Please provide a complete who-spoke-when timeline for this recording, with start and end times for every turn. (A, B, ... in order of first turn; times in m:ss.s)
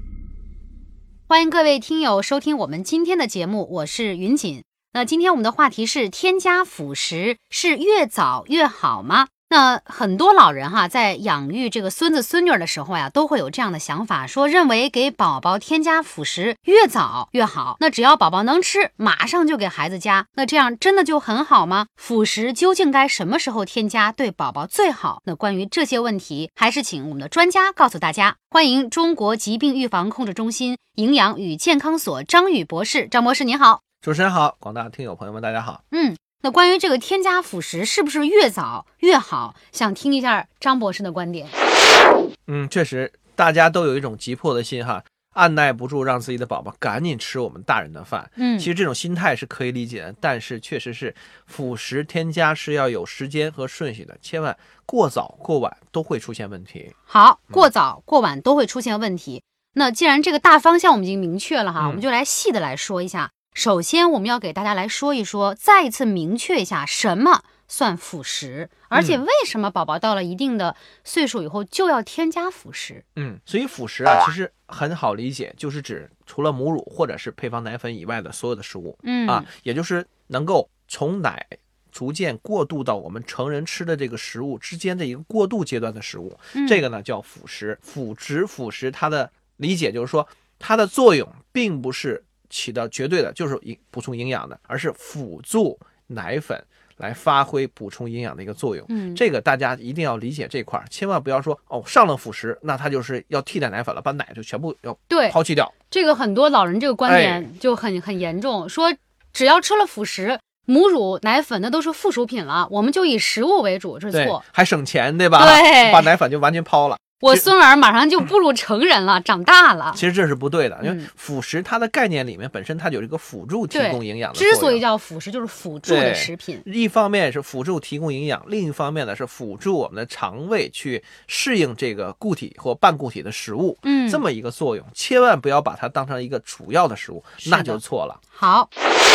0:01.3-0:33.8 A
0:34.0-0:35.8 B
0:35.9-0:41.6 A
0:42.5-0:56.9 B
0:48.4-0:48.7 A
0:57.1-1:13.0 A
1:01.8-1:02.0 B
1:08.9-1:09.2 B
1:13.2-1:45.7 B
1:19.0-1:19.5 A
1:26.5-1:26.8 A
1:38.9-1:39.2 A
1:45.1-1:54.4 A
1:47.0-1:47.5 B
1:54.1-1:57.5 B
1:55.4-1:56.1 A
1:57.2-2:00.0 A
1:59.9-2:04.8 B
2:00.8-2:01.1 A
2:03.7-2:06.6 A
2:05.8-2:18.2 B
2:13.8-2:14.2 A
2:17.4-2:17.8 A
2:18.3-2:18.7 A